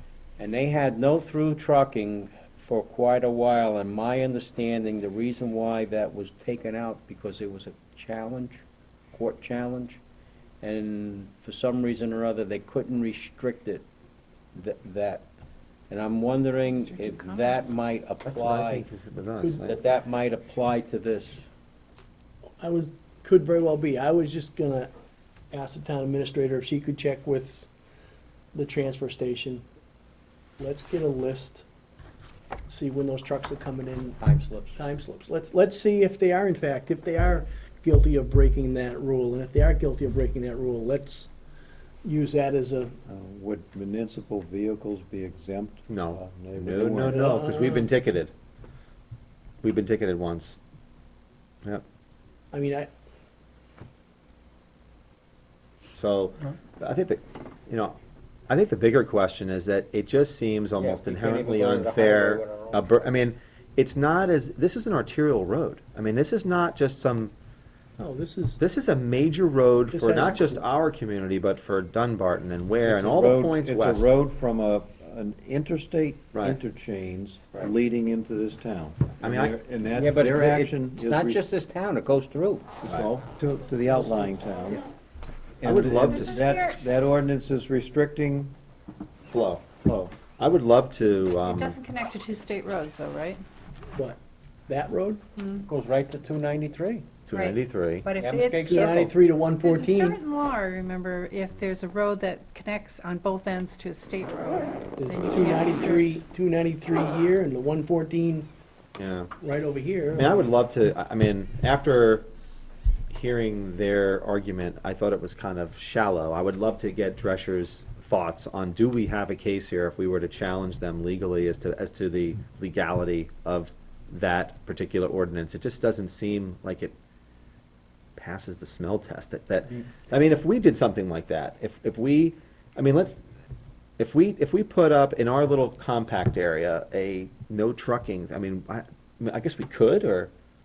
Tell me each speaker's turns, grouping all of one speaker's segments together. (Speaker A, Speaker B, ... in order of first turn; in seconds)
Speaker A: 0.4-10.0, 10.6-13.8, 14.5-15.3, 15.9-18.9, 19.6-21.5, 34.2-34.8, 60.8-62.9, 80.0-82.7, 95.7-97.0, 98.2-99.1
Speaker B: 16.8-17.7, 86.0-86.8, 91.4-93.4, 95.4-95.7, 97.3-99.1, 99.6-106.2
Speaker C: 18.2-19.8, 45.9-48.3, 49.6-50.6, 56.0-58.0, 58.5-67.3, 68.6-74.1, 76.3-76.6, 79.2-79.6, 85.6-86.5, 89.3-91.8, 97.3-98.1, 109.0-109.3, 110.1-112.3, 113.1-127.0, 128.2-133.2, 134.0-140.3
Speaker D: 22.6-24.9, 25.5-27.7, 28.5-29.6, 30.6-31.6, 32.7-34.2, 34.8-41.3, 42.0-43.0, 47.1-47.9, 52.5-52.9, 68.0-68.6, 69.9-70.6, 93.9-95.2, 98.7-100.2, 105.0-108.5, 109.4-110.4
Speaker E: 43.1-47.3, 72.8-81.4, 82.8-84.8, 85.6-88.5